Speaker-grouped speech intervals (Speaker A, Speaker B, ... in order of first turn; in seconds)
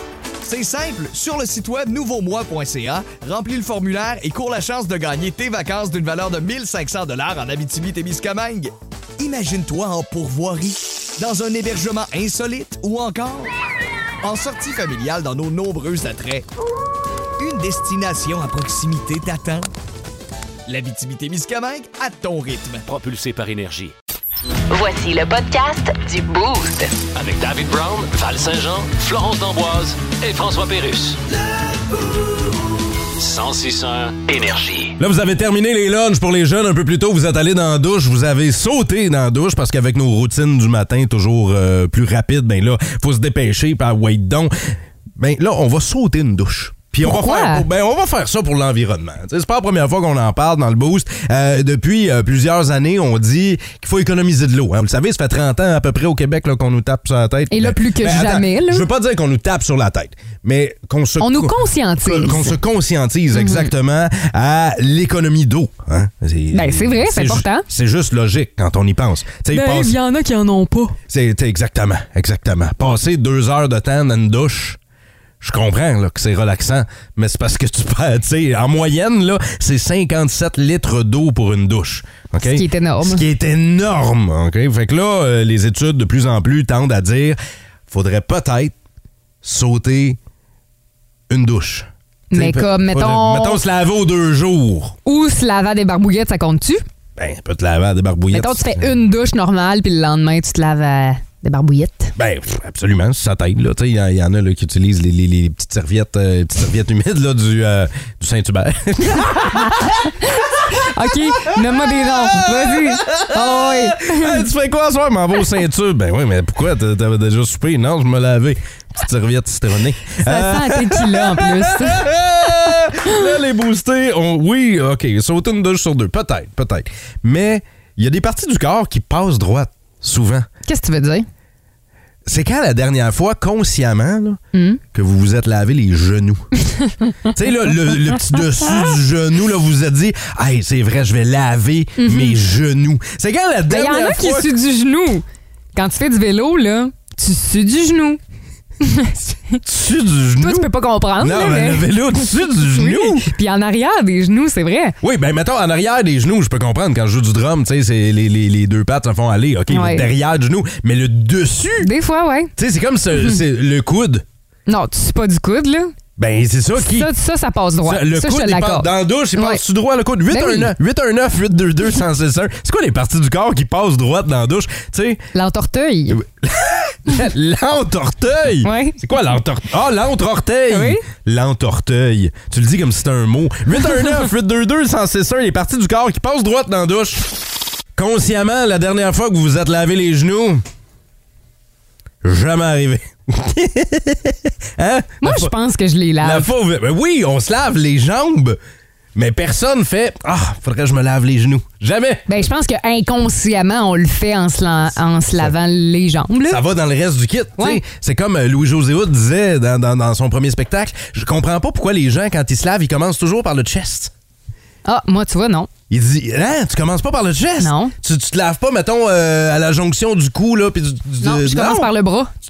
Speaker A: 0.4-13.5, 14.2-16.4, 17.4-19.7, 20.7-22.8
Speaker B: 22.9-23.9, 27.1-31.2, 33.2-34.9
Speaker C: 24.7-27.0
Speaker D: 35.0-70.0, 71.1-74.8, 75.4-88.7, 89.4-90.2, 91.3-95.0, 97.2-98.9, 102.2-110.0, 111.3-130.5, 132.2-134.4, 134.9-136.5, 137.3-144.5, 149.6-153.2, 155.0-161.9, 162.6-164.2, 166.2-167.1, 167.8-175.2, 176.1-187.3, 187.9-190.6, 192.2-195.5, 196.2-198.6, 199.1-202.2, 206.5-214.1, 215.9-221.9
Speaker E: 47.0-47.6, 57.5-58.9, 61.2-62.5, 63.3-63.7, 66.5-67.7, 69.5-71.0, 82.4-83.2, 92.3-93.6, 95.0-96.8, 98.3-102.1, 109.5-114.5, 120.2-122.1, 130.7-131.3, 134.5-134.8, 142.0-142.4, 143.7-145.2, 145.7-148.2, 148.8-149.6, 150.4-154.9, 159.7-160.1, 161.8-162.5, 164.7-165.9, 166.8-169.6, 170.3-170.7, 175.3-176.2, 178.6-179.0, 180.7-181.0, 195.2-196.5, 202.3-206.6, 214.8-215.7, 217.6-217.9, 221.2-222.3